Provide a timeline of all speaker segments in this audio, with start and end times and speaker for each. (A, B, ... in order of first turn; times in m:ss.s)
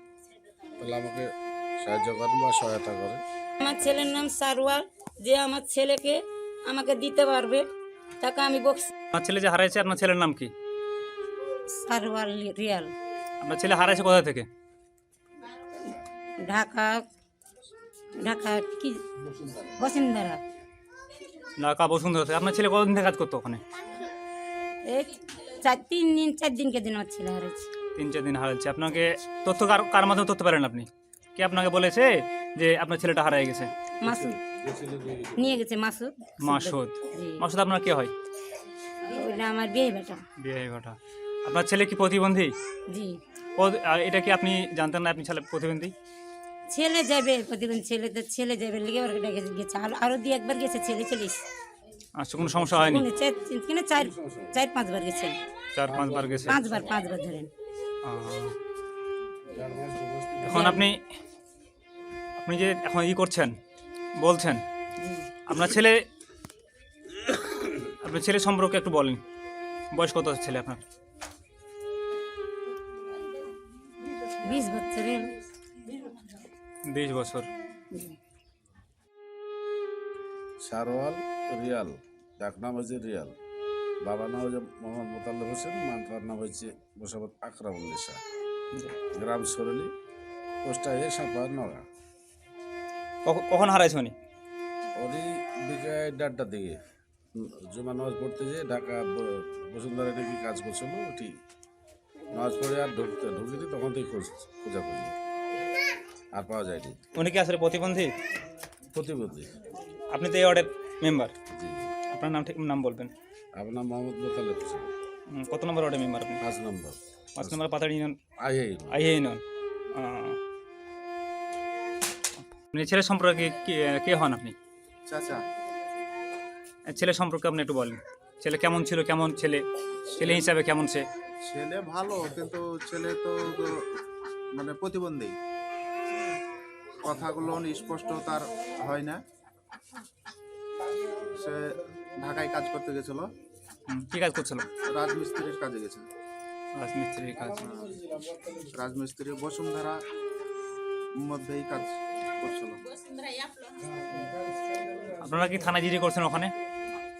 0:00.8-0:01.3 A
0:01.8-0:03.2 A
0:03.6-0:07.6 B
0:08.2-0:08.9 B
0:09.1-0:10.5 C
0:11.7-0:12.9 B
0:13.4-0:14.5 C
0:16.4-0:17.0 B
0:18.2-0:19.0 B
0:19.8-0:20.4 B
0:21.6-0:23.6 C
0:24.9-0:27.6 B
0:28.0-0:33.7 C
0:34.0-0:34.4 B
0:34.0-0:35.6 A
0:35.4-0:37.4 B
0:36.4-0:38.1 C
0:39.1-0:40.2 B
0:40.4-0:42.6 C
0:42.9-0:43.2 B
0:43.6-0:45.9 C
0:46.7-0:51.4 B
0:52.2-0:53.0 C
0:52.4-0:53.0 A
0:52.6-0:55.4 B
0:54.0-0:54.6 A
0:55.7-0:56.6 C
0:55.9-0:57.0 A
0:56.5-0:57.5 B
0:58.0-0:58.6 C
0:59.5-1:00.8 A
1:00.4-1:01.0 C
1:00.5-1:00.8 B
1:02.4-1:03.5 C
1:04.2-1:04.6 C
1:05.0-1:05.4 B
1:05.5-1:06.0 C
1:08.0-1:09.2 C
1:09.9-1:10.8 C
1:14.4-1:15.3 B
1:16.9-1:17.5 C
1:20.6-1:23.4 A
1:24.0-1:28.2 A
1:29.1-1:29.9 A
1:30.6-1:31.8 A
1:33.2-1:34.1 C
1:35.0-1:36.8 A
1:37.4-1:41.3 A
1:42.3-1:45.1 A
1:46.3-1:47.0 A
1:47.1-1:48.1 C
1:48.9-1:49.5 A
1:50.1-1:51.3 C
1:51.5-1:51.9 A
1:52.1-1:53.1 C
1:53.6-1:54.9 A
1:55.3-1:56.4 C
1:56.4-1:57.6 A
1:57.4-1:58.2 C
1:58.4-1:59.0 A
1:58.9-1:59.4 C
1:59.9-2:00.4 C
2:02.7-2:04.6 C
2:05.1-2:05.4 D
2:06.9-2:11.0 C
2:11.5-2:14.0 D
2:14.6-2:15.4 D
2:17.0-2:19.2 D
2:21.3-2:23.3 D
2:23.9-2:24.7 C
2:24.8-2:26.1 D
2:26.8-2:27.7 C
2:27.7-2:28.0 D
2:28.7-2:30.0 D
2:31.2-2:32.8 D
2:35.2-2:36.5 C